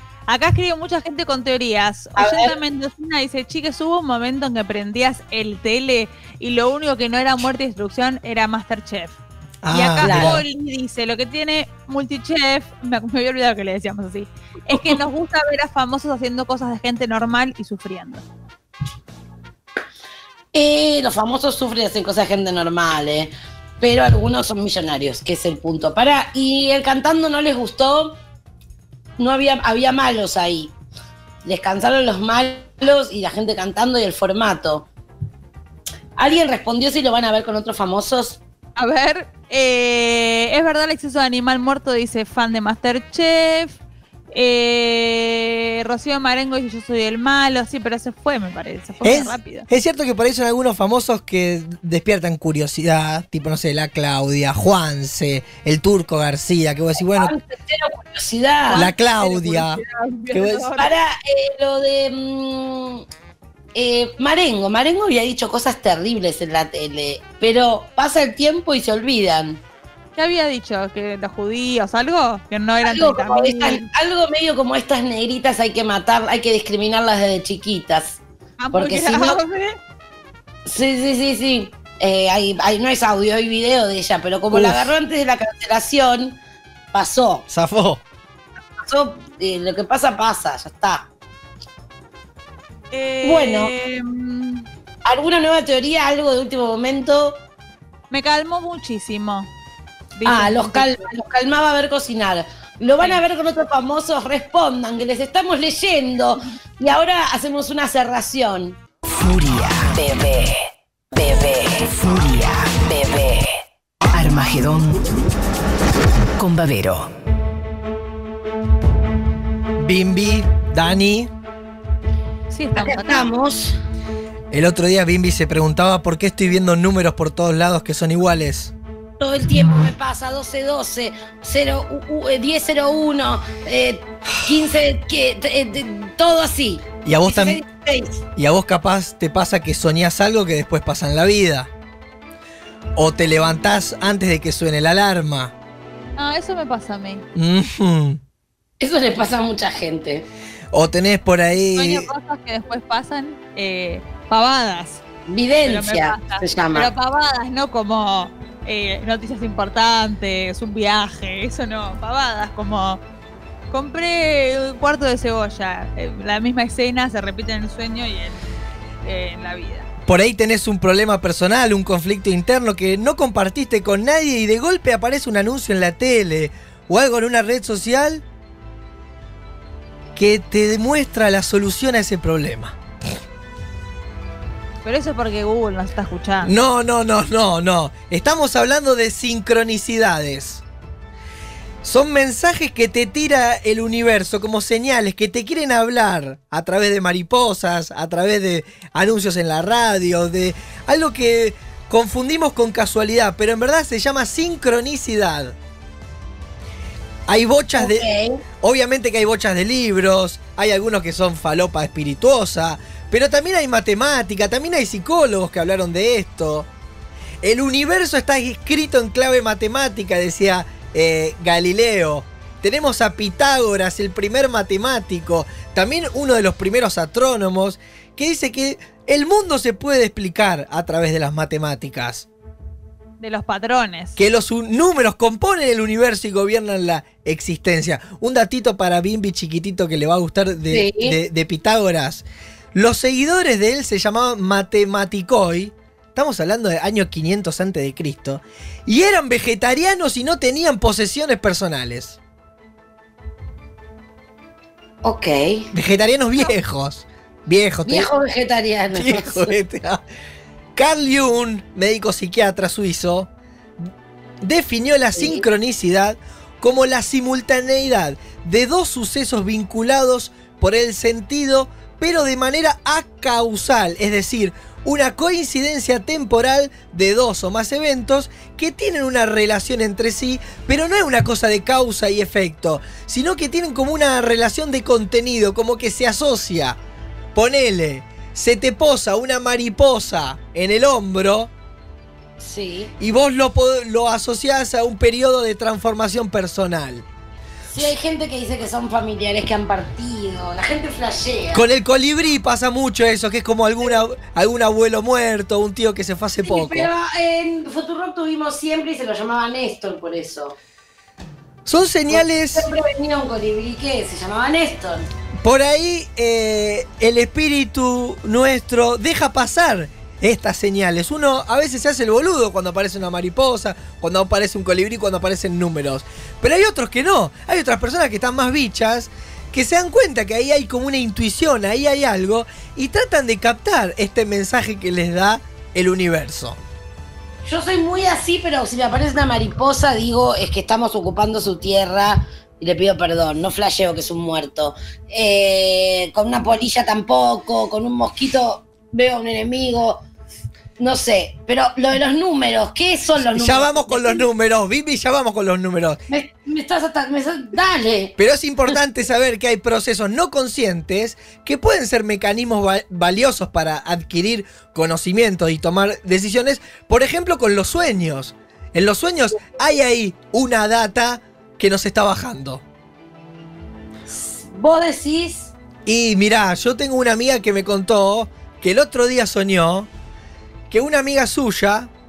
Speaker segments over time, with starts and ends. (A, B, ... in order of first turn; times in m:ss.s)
0:00.3-0:09.2 A
0:02.2-0:02.5 B
0:09.6-0:10.4 C
0:09.7-0:18.3 A
0:10.0-0:10.4 B
0:20.5-0:28.2 B
0:29.2-0:30.7 B
0:31.4-0:34.9 B
0:36.2-0:38.4 B
0:38.8-0:43.8 A
0:44.3-0:49.7 A
0:49.0-0:57.4 C
0:57.0-0:58.9 B
0:58.7-1:00.9 A
0:58.7-1:00.7 C
1:00.8-1:03.0 B
1:03.8-1:09.6 B
1:10.2-1:13.8 A
1:12.8-1:18.2 B
1:18.6-1:19.8 A
1:18.7-1:19.4 B
1:20.6-1:26.4 B
1:24.5-1:24.9 C
1:26.9-1:27.5 B
1:27.5-1:28.0 C
1:28.9-1:31.1 B
1:32.9-1:34.6 A
1:33.2-1:33.7 B
1:35.0-1:37.4 B
1:38.1-1:39.5 A
1:40.2-1:41.1 A
1:40.2-1:48.8 B
1:49.2-1:55.1 D
1:56.4-1:57.1 D
1:59.8-2:01.3 C
2:02.5-2:03.3 A
2:02.8-2:03.8 B
2:04.5-2:08.7 C
2:09.2-2:18.2 B
2:17.0-2:17.6 C
2:18.4-2:21.7 C
2:23.0-2:25.5 C
2:26.2-2:27.3 A
2:27.4-2:28.2 C
2:28.8-2:30.3 B
2:30.7-2:32.1 C
2:31.5-2:35.0 A
2:35.3-2:36.9 B
2:35.6-2:43.0 A
2:43.7-2:48.5 A
2:49.0-2:49.9 A
2:50.1-2:58.2 C
3:00.2-3:02.8 C
3:04.8-3:06.5 A
3:06.4-3:10.6 C
3:11.8-3:25.6 C
3:27.3-3:28.1 C
3:27.8-3:28.4 B
3:28.6-3:36.7 C
3:37.4-3:52.3 C
3:53.2-3:54.2 A
3:54.2-4:12.2 C
4:00.7-4:01.2 B
4:15.0-4:15.7 B
4:15.7-4:18.1 C
4:17.9-4:19.5 B
4:18.9-4:20.0 C
4:20.8-4:23.3 C
4:24.4-4:46.8 C
4:25.2-4:25.4 B
4:47.4-4:51.5 C
4:52.4-4:52.9 B
4:53.0-4:57.0 C
4:57.7-5:01.6 B
5:01.5-5:06.9 C
5:06.4-5:10.6 B
5:11.6-5:12.7 C
5:12.1-5:15.1 B
5:15.4-5:36.6 C
5:37.5-5:50.0 B
5:50.8-5:54.2 B
5:53.3-5:56.0 C
5:56.1-5:58.2 B
5:58.2-6:12.6 C
6:14.1-6:15.5 B
6:15.9-6:19.9 C
6:20.7-6:21.9 C